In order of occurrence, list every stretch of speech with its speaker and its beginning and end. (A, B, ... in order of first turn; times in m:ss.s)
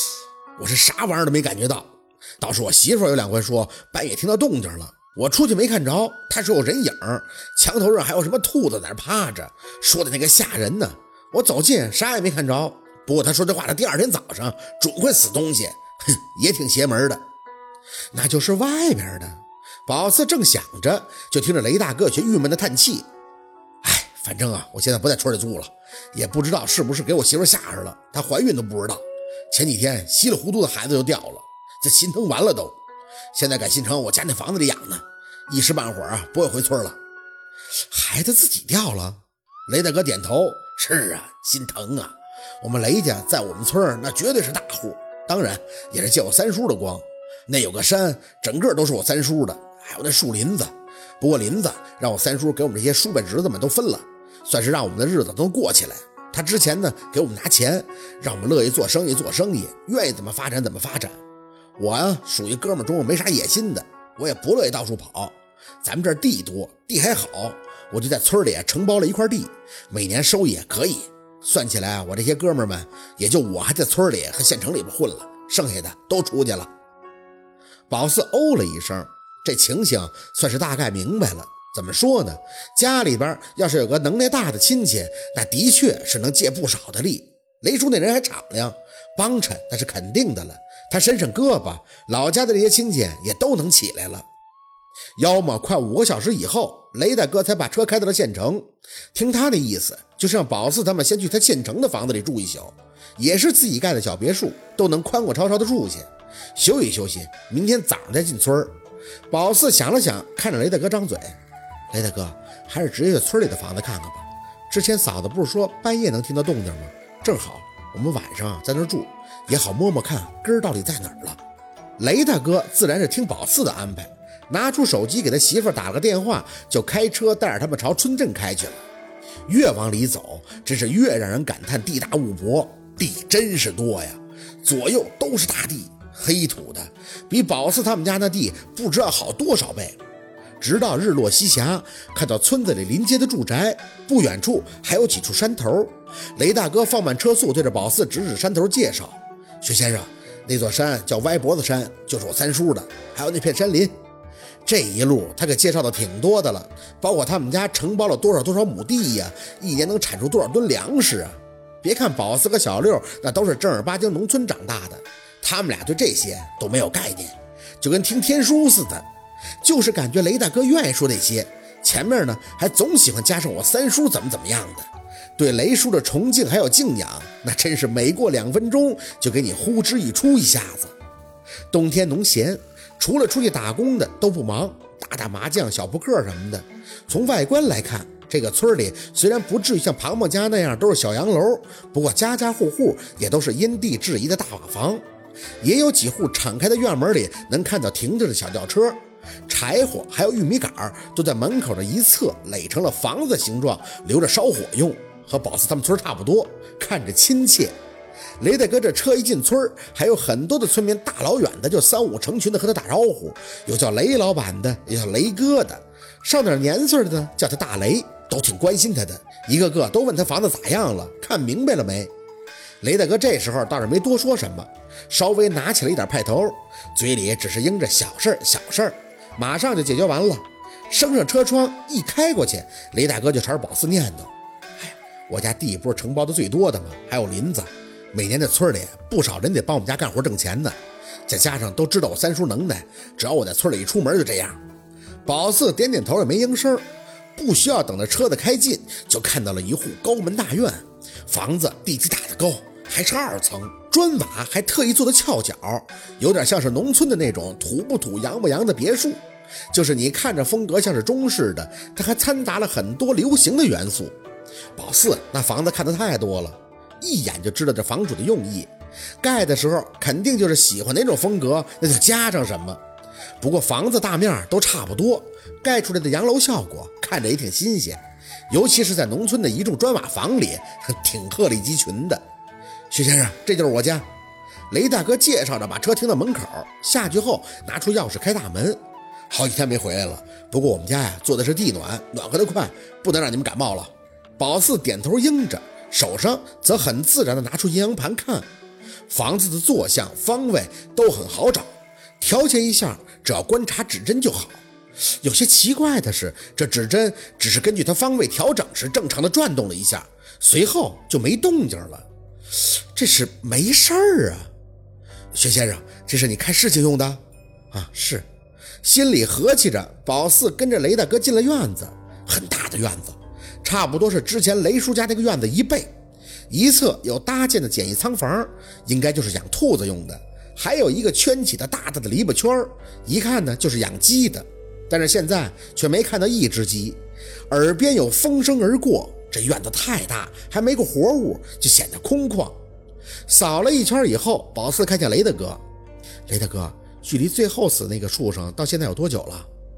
0:00.6-0:17.2 A
0:18.1-0:23.1 A
0:23.8-0:32.8 A
0:33.3-0:37.0 A
0:37.9-1:01.2 A
1:01.8-1:16.7 A
1:17.9-1:34.3 A
1:35.2-1:48.8 A
1:49.3-1:51.4 A
1:51.9-2:01.4 A
2:02.0-2:08.8 A
2:09.5-2:20.0 A
2:20.6-2:33.9 A
2:34.6-2:49.1 A
2:49.6-3:00.9 A
3:01.7-3:15.0 A
3:15.6-3:27.8 A
3:28.4-3:42.1 A
3:42.8-4:00.8 A
4:01.3-4:04.6 A
4:05.2-4:24.2 A
4:24.8-4:32.8 A
4:33.4-4:42.2 A
4:42.9-4:44.0 A
4:44.7-4:48.8 A
4:49.3-4:58.5 A
4:59.1-5:14.5 A
5:15.3-5:18.3 A
5:18.8-5:25.9 A
5:26.5-5:42.6 A
5:43.3-5:45.6 A
5:46.3-5:49.5 A